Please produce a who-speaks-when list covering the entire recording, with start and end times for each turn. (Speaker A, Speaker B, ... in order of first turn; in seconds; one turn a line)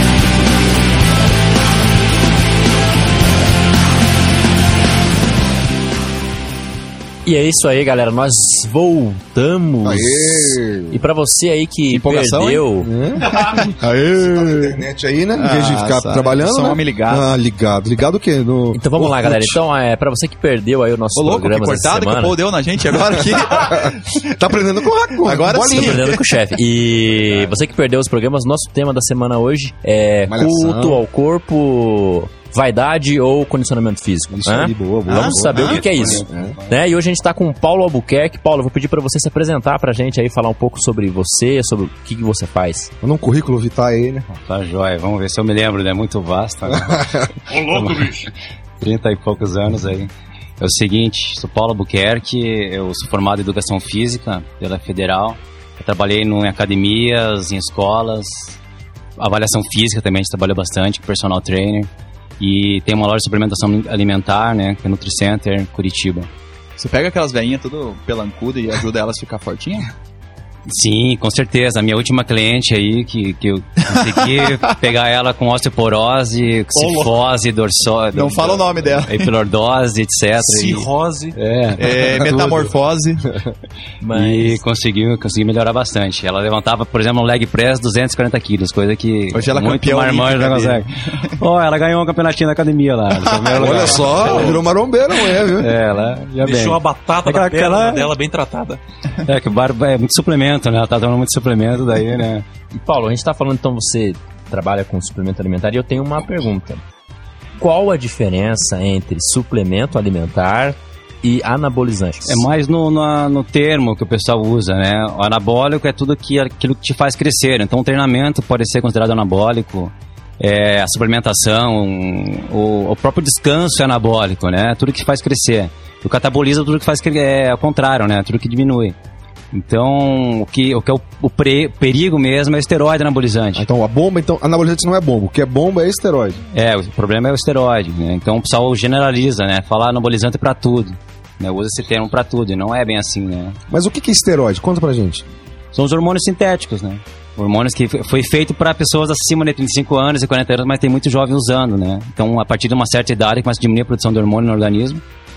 Speaker A: 7.2-12.9
Speaker B: 9.8-11.0
Speaker C: 11.9-12.7
Speaker B: 12.8-19.6
Speaker C: 13.2-14.8
Speaker C: 15.4-17.3
Speaker A: 18.7-22.4
Speaker C: 21.1-24.1
Speaker B: 23.4-26.2
Speaker C: 25.2-26.2
Speaker A: 25.7-42.9
Speaker B: 30.3-31.0
Speaker B: 34.3-36.5
Speaker C: 35.1-35.8
Speaker D: 35.5-36.7
Speaker B: 43.0-44.3
Speaker D: 44.3-58.5
Speaker B: 46.7-47.3
Speaker D: 59.2-66.3
Speaker C: 66.8-69.9
Speaker D: 70.7-82.6
Speaker C: 73.9-74.5
Speaker E: 76.8-77.2
Speaker C: 78.1-79.3
Speaker E: 80.4-81.3
Speaker C: 81.8-83.3
Speaker A: 84.0-84.6
Speaker D: 84.1-94.5
Speaker C: 89.3-91.3
Speaker C: 93.1-94.5
Speaker B: 93.5-95.7
Speaker D: 95.5-98.1
Speaker E: 96.4-98.8
Speaker D: 99.2-102.5
Speaker A: 102.7-106.8
Speaker A: 107.6-112.4
Speaker D: 112.2-129.0
Speaker D: 129.5-133.7
Speaker B: 133.6-136.4
Speaker D: 136.5-143.6
Speaker B: 143.7-145.2
Speaker D: 145.7-155.0